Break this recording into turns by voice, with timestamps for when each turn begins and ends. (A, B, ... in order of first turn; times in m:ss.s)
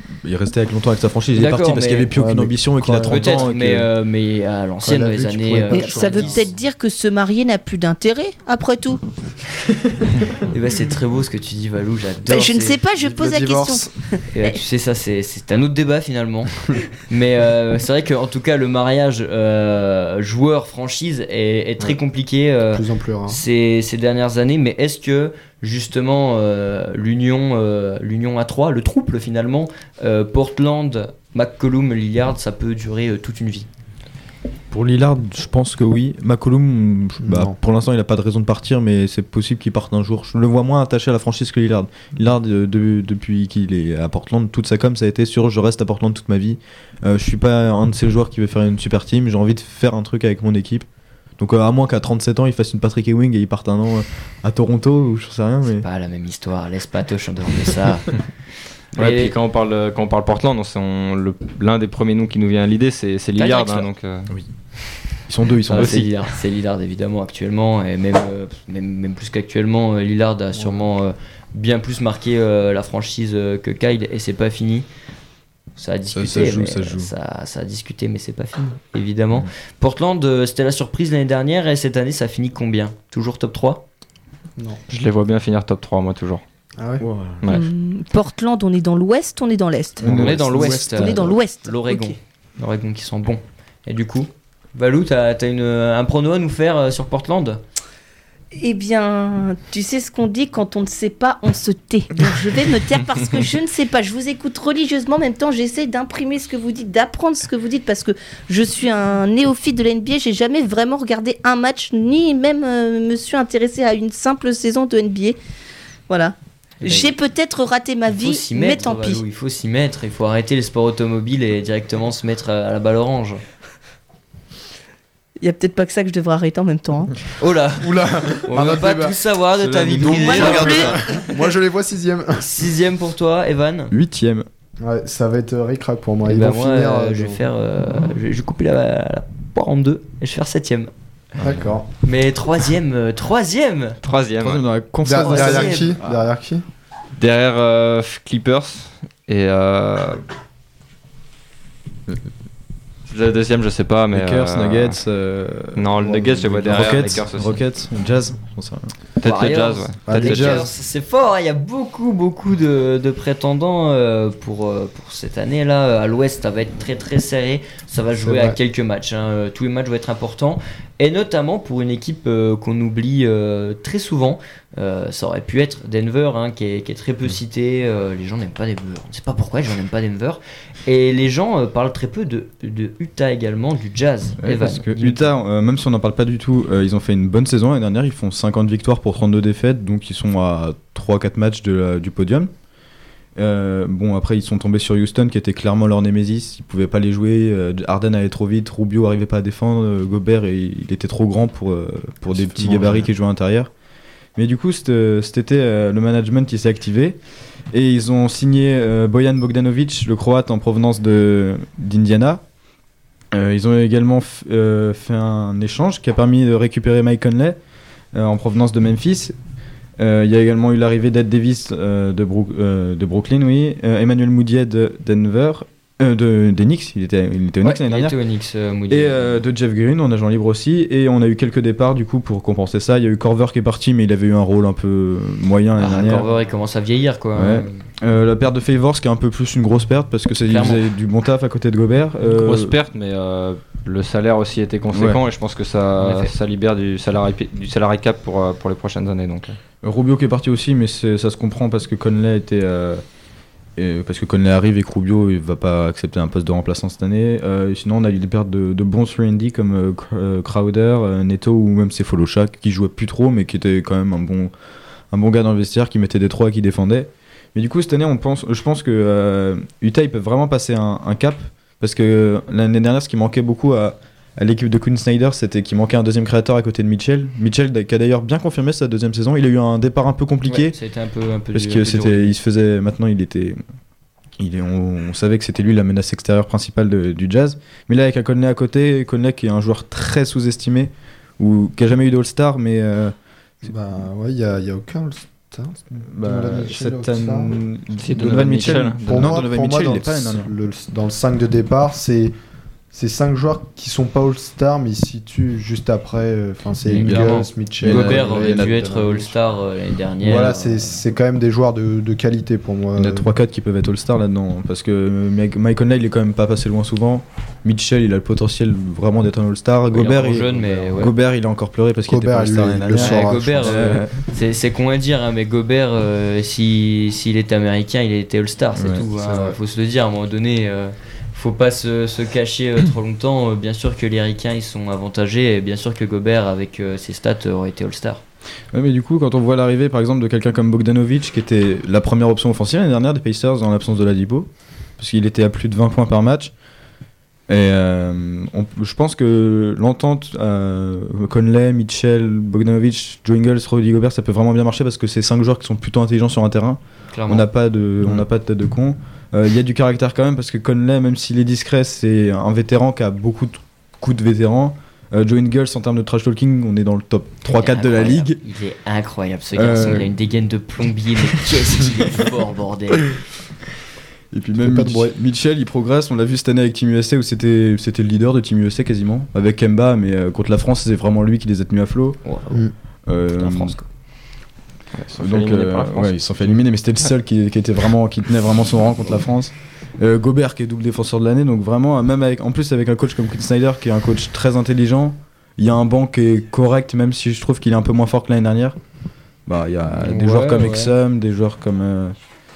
0:00.2-0:03.9 A
0:01.3-0:02.1 B
0:02.1-0:03.4 C
0:03.0-0:06.5 B
0:04.8-0:06.5 C
0:05.7-0:09.0 D
0:10.4-0:12.8 B
0:12.3-0:14.6 D
0:12.9-0:13.9 C
0:14.3-0:33.7 B
0:22.7-0:23.4 C
0:34.7-0:50.8 A
0:37.2-0:37.6 C
0:51.4-0:55.8 A
0:55.8-0:58.2 B
0:58.9-0:59.3 B
0:59.0-1:04.3 E
1:03.4-1:04.5 A
1:05.1-1:06.1 A
1:05.7-1:14.8 B
1:10.5-1:10.8 C
1:15.8-1:23.8 B
1:16.1-1:17.1 A
1:24.9-1:26.4 E
1:26.8-1:27.0 C
1:27.0-1:27.4 A
1:27.4-1:27.7 E
1:27.5-1:32.2 D
1:30.0-1:31.3 A
1:30.0-1:37.6 B
1:38.6-1:55.4 D
1:56.1-1:59.2 D
1:56.8-1:57.1 B
1:58.1-2:03.4 B
2:05.4-2:07.2 D
2:07.4-2:11.1 B
2:07.8-2:09.2 C
2:09.6-2:11.0 A
2:10.2-2:11.0 D
2:10.3-2:12.5 C
2:12.4-2:13.9 B
2:13.9-2:14.4 A
2:14.8-2:17.4 C
2:16.2-2:21.4 B
2:21.4-2:21.9 C
2:21.4-2:21.7 A
2:22.0-2:24.0 B
2:24.0-2:24.6 E
2:24.4-2:26.2 A
2:25.0-2:26.6 C
2:25.1-2:25.9 B
2:27.2-2:30.2 E
2:33.1-2:35.0 E
2:34.1-2:38.9 A
2:35.8-2:37.6 E
2:39.2-2:40.7 E
2:39.2-3:05.3 B
2:40.1-2:40.7 C
2:48.2-2:48.6 C
3:04.4-3:12.5 A
3:13.4-3:23.7 A
3:22.4-3:23.0 C
3:24.3-3:32.4 A
3:33.3-3:37.6 A
3:38.1-3:39.4 A
3:40.0-3:48.2 A
3:47.6-3:49.4 B
3:48.9-3:56.3 A
3:55.8-3:57.8 B
3:57.3-4:02.7 A
4:00.5-4:00.8 B
4:02.3-4:09.6 E
4:04.9-4:05.2 A
4:06.0-4:06.3 B
4:09.8-4:13.0 A
4:13.8-4:24.5 A
4:25.1-4:40.8 A
4:40.4-4:42.4 B
4:41.5-4:43.6 A
4:44.4-4:53.1 A
4:53.6-4:57.6 C
4:56.0-5:00.5 A
4:58.0-4:59.5 E
4:58.1-5:02.3 C
5:02.9-5:09.3 C
5:06.9-5:11.0 B
5:06.9-5:08.9 A
5:10.2-5:13.3 C
5:13.0-5:24.2 A
5:19.9-5:21.1 B
5:20.6-5:20.9 C
5:22.1-5:23.8 C
5:23.0-5:38.2 B
5:28.7-5:29.0 A
5:29.1-5:29.6 C
5:38.7-5:46.5 A
5:47.5-6:08.4 A
5:57.1-5:57.5 B
6:07.4-6:13.2 B
6:09.5-6:10.1 A
6:14.3-6:22.2 A
6:14.6-6:15.1 C
6:22.2-6:22.7 B
6:23.0-6:23.8 A
6:23.4-6:23.8 B
6:24.9-6:26.3 E
6:25.2-6:38.8 A
6:39.4-6:42.2 A
6:40.0-6:40.9 B